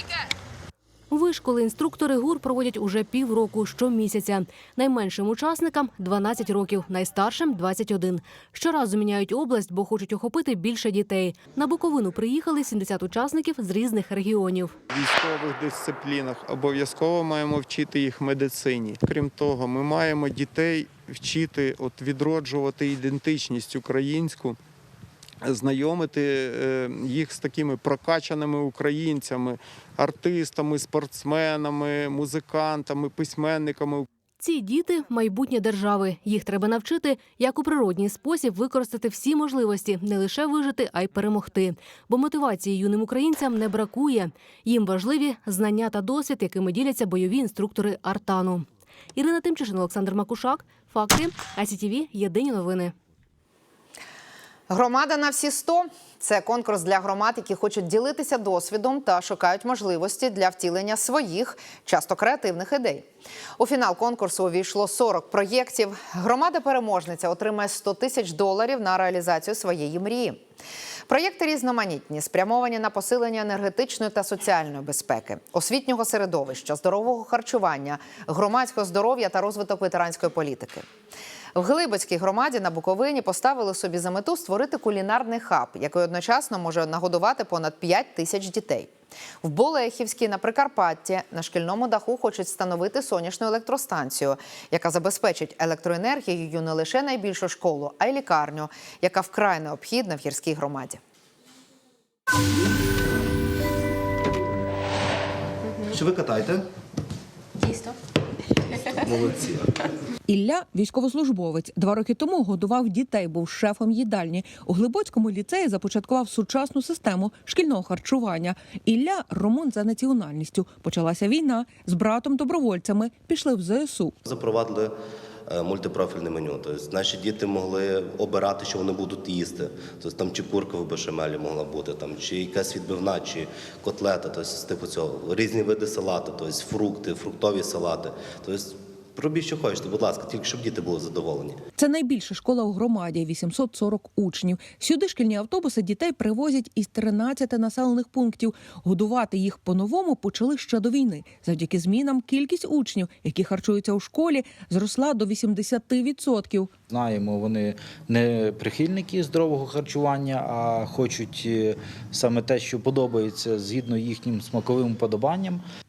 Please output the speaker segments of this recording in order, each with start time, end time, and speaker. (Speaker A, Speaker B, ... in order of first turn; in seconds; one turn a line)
Speaker A: 1.1-14.7
Speaker B: 14.9-24.6
Speaker B: 25.4-34.1
Speaker A: 34.4-52.9
Speaker C: 54.7-63.0
Speaker C: 63.6-70.4
Speaker C: 71.1-80.8
Speaker C: 81.5-88.9
Speaker C: 89.4-101.0
Speaker D: 106.0-106.6
Speaker D: 109.1-109.5
Speaker E: 110.3-124.1
Speaker D: 124.2-124.9
Speaker D: 125.5-141.6
Speaker E: 141.8-156.7
Speaker F: 156.9-165.6